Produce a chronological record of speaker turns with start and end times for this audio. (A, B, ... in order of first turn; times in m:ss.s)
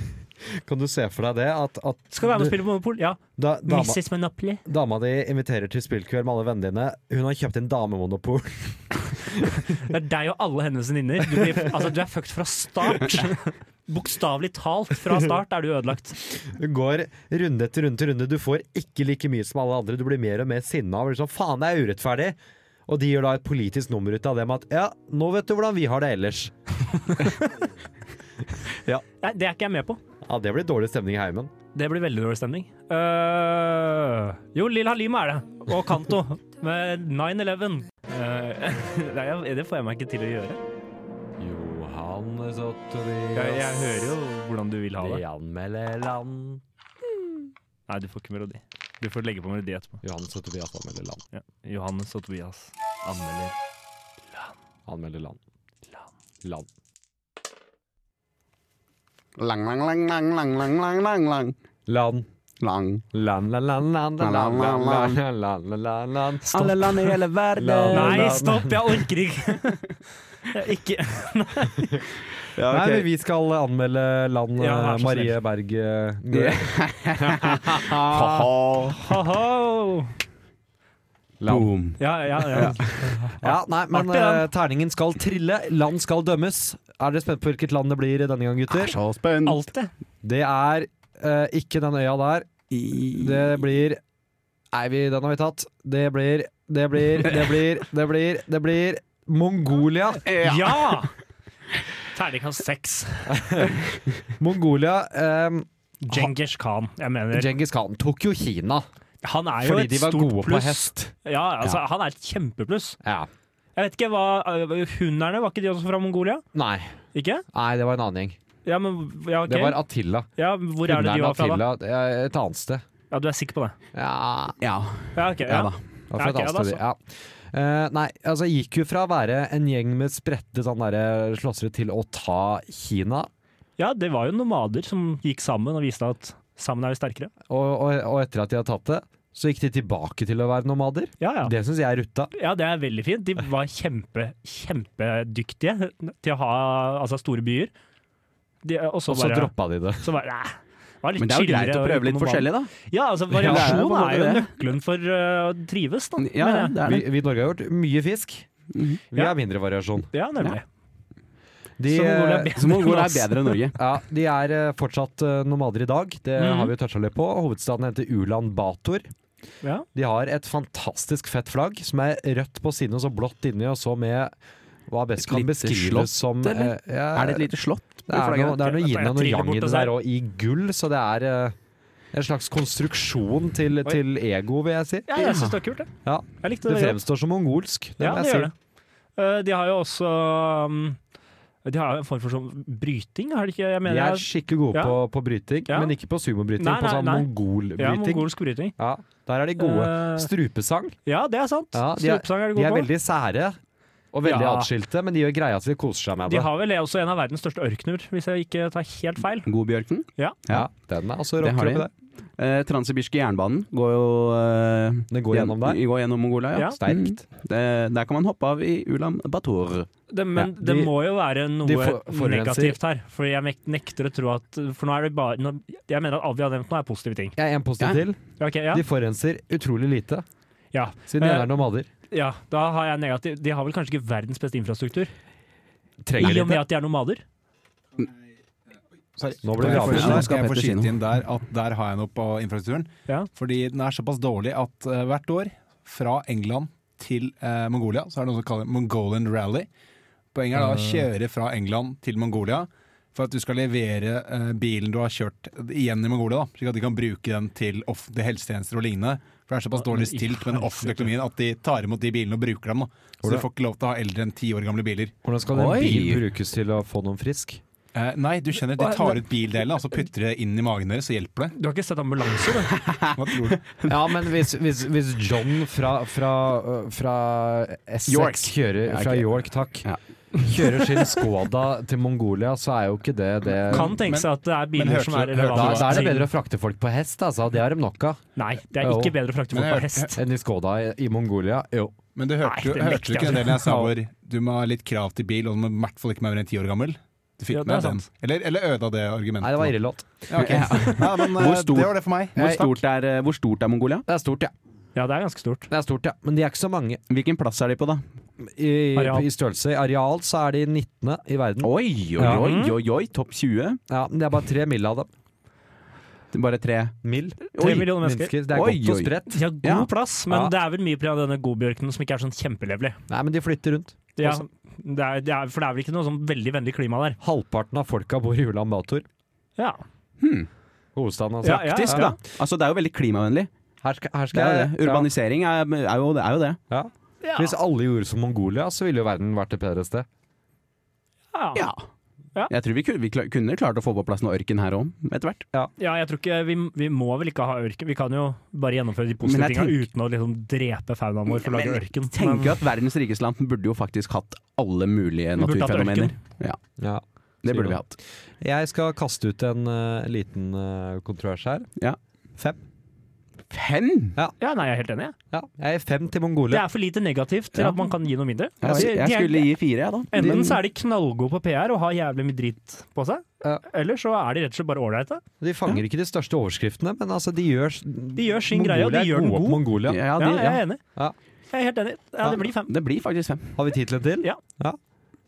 0:00.4-0:02.6 A
0:02.1-0:04.6 B
0:03.4-0:04.0 A
0:04.6-0:09.6 A
0:09.8-0:16.2 B
0:16.3-0:27.3 A
0:29.2-0:30.0 B
0:30.2-0:31.5 A
0:31.7-0:40.6 B
0:41.4-0:43.7 A
0:43.3-0:45.2 B
0:45.0-0:46.6 A
0:47.9-0:50.0 B
0:50.0-0:51.2 A
0:51.3-0:53.6 B
0:54.9-0:55.4 A
0:56.4-0:56.7 A
0:59.4-1:01.5 C
1:01.9-1:02.2 A
1:02.6-1:03.0 C
1:03.1-1:09.0 A
1:04.2-1:05.2 C
1:06.5-1:08.4 C
1:07.9-1:09.8 B
1:10.5-1:12.0 B
1:12.5-1:13.0 C
1:12.7-1:18.5 A
1:14.6-1:15.4 B
1:16.3-1:19.0 C
1:19.0-1:20.1 B
1:21.4-1:21.7 A
1:21.5-1:23.1 C
1:22.0-1:24.5 B
1:23.4-1:29.0 A
1:28.7-1:29.6 C
1:29.4-1:29.9 B
1:30.2-1:32.5 A
1:32.7-1:33.5 C
1:33.1-1:34.0 A
1:34.7-1:40.3 A
1:40.2-1:41.0 C
1:40.4-1:41.1 B
1:42.1-1:43.6 B
1:43.3-1:43.8 A
1:44.4-1:46.3 A
1:46.0-1:47.5 B
1:47.3-1:48.9 A
1:49.2-1:53.0 B
1:49.6-1:51.1 A
1:53.0-1:53.3 A
1:53.8-1:56.4 B
1:56.5-1:56.9 A
1:57.1-1:57.4 B
1:57.5-1:58.4 A
1:58.6-1:59.8 B
1:59.4-2:00.3 A
2:00.4-2:01.6 B
2:00.8-2:02.8 A
2:03.1-2:03.8 B
2:03.9-2:04.6 A
2:04.6-2:05.8 C
2:05.1-2:06.8 B
2:06.1-2:13.3 A
2:13.8-2:17.3 B
2:17.5-2:22.3 A
2:21.2-2:21.5 B
2:22.3-2:27.7 B
2:28.6-2:36.8 B
2:29.1-2:30.0 A
2:31.2-2:32.7 C
2:33.3-2:34.5 C
2:33.4-2:33.8 A
2:36.2-2:37.0 C
2:36.8-2:38.5 A
2:38.7-2:39.0 C
2:39.1-2:40.1 A
2:40.1-2:40.6 B
2:41.8-2:42.5 A
2:41.9-2:43.5 B
2:42.6-2:43.8 C
2:43.7-2:49.1 A
2:46.4-2:46.7 B
2:49.9-2:54.3 A
2:54.9-2:57.5 A
2:55.2-2:58.6 C
2:58.1-3:01.6 A
2:58.6-2:59.9 B
3:02.1-3:05.2 A
3:05.1-3:05.9 B
3:05.2-3:05.5 C
3:06.0-3:08.5 A
3:06.4-3:07.0 B
3:08.0-3:08.5 B
3:09.2-3:11.0 B
3:11.6-3:15.0 B
3:13.8-3:21.0 A
3:15.7-3:15.9 B
3:16.6-3:18.7 B
3:19.6-3:20.3 B
3:21.0-3:22.9 B
3:21.7-3:23.6 A
3:24.1-3:26.5 A
3:24.2-3:24.7 B
3:26.2-3:29.5 B
3:29.4-3:30.7 C
3:30.5-3:31.9 A
3:31.4-3:39.9 C
3:35.1-3:35.8 A
3:36.8-3:37.2 A
3:40.1-3:47.3 B
3:40.3-3:40.9 A
3:41.6-3:42.8 A
3:47.4-3:50.2 A
3:48.4-3:48.8 B
3:50.7-3:51.5 B
3:51.1-3:51.9 A
3:52.1-3:55.1 B
3:56.0-3:56.6 A
3:56.2-3:57.2 B
3:59.2-4:09.7 D
3:59.4-4:00.4 A
3:59.6-4:00.9 C
4:10.3-4:25.1 D
4:19.8-4:21.1 B
4:25.2-4:27.6 A
4:25.5-4:26.2 C
4:27.9-4:31.5 D
4:28.8-4:29.2 B
4:31.5-4:32.8 B
4:32.7-4:34.0 C
4:33.1-4:33.6 D
4:33.8-4:39.9 A
4:38.1-4:39.3 C
4:39.8-4:41.2 C
4:40.4-4:44.0 A
4:43.5-4:46.1 D
4:43.7-4:46.3 B
4:45.5-4:48.2 A
4:48.4-4:50.2 B
4:48.8-4:49.1 A
4:49.5-4:50.1 D
4:50.1-4:52.0 A
4:52.2-4:59.7 D
4:52.4-4:53.6 B
4:53.6-4:53.9 A
4:57.5-4:58.0 B
4:59.4-5:00.9 A
5:00.3-5:02.7 D
5:00.4-5:04.0 C
5:02.4-5:02.7 A
5:04.1-5:04.5 A
5:04.9-5:05.7 B
5:05.7-5:07.0 A
5:07.1-5:08.0 C
5:08.4-5:12.4 A
5:09.0-5:09.3 B
5:11.6-5:13.8 C
5:12.2-5:12.8 B
5:13.9-5:15.1 A
5:16.3-5:16.9 C
5:17.0-5:19.5 A
5:17.5-5:18.3 B
5:17.6-5:17.9 C
5:18.5-5:19.9 C
5:19.3-5:23.0 B
5:20.3-5:20.5 A
5:23.1-5:24.4 A
5:24.2-5:27.2 B
5:27.2-5:29.0 A
5:30.2-5:30.5 C
5:30.9-5:32.1 A
5:31.4-5:32.1 B
5:31.7-5:33.5 C
5:33.8-5:35.1 A
5:34.3-5:36.6 C
5:36.7-5:40.1 A
5:37.2-5:37.5 B
5:41.3-5:41.6 B
5:41.5-5:41.8 C
5:42.5-5:45.4 C
5:45.8-5:52.6 B
5:49.2-5:49.8 C
5:51.3-5:56.6 C
5:55.4-5:56.1 B
5:56.8-5:57.8 A
5:57.4-5:57.9 C
5:58.4-6:01.7 A
6:03.5-6:04.2 C
6:04.4-6:05.1 B
6:05.3-6:06.6 A
6:06.5-6:09.5 B
6:08.6-6:10.4 C
6:10.1-6:15.2 B
6:10.2-6:10.5 A
6:15.4-6:20.0 A
6:18.2-6:20.8 B
6:19.8-6:20.6 C
6:21.5-6:22.7 B
6:22.7-6:23.6 C
6:23.6-6:24.8 A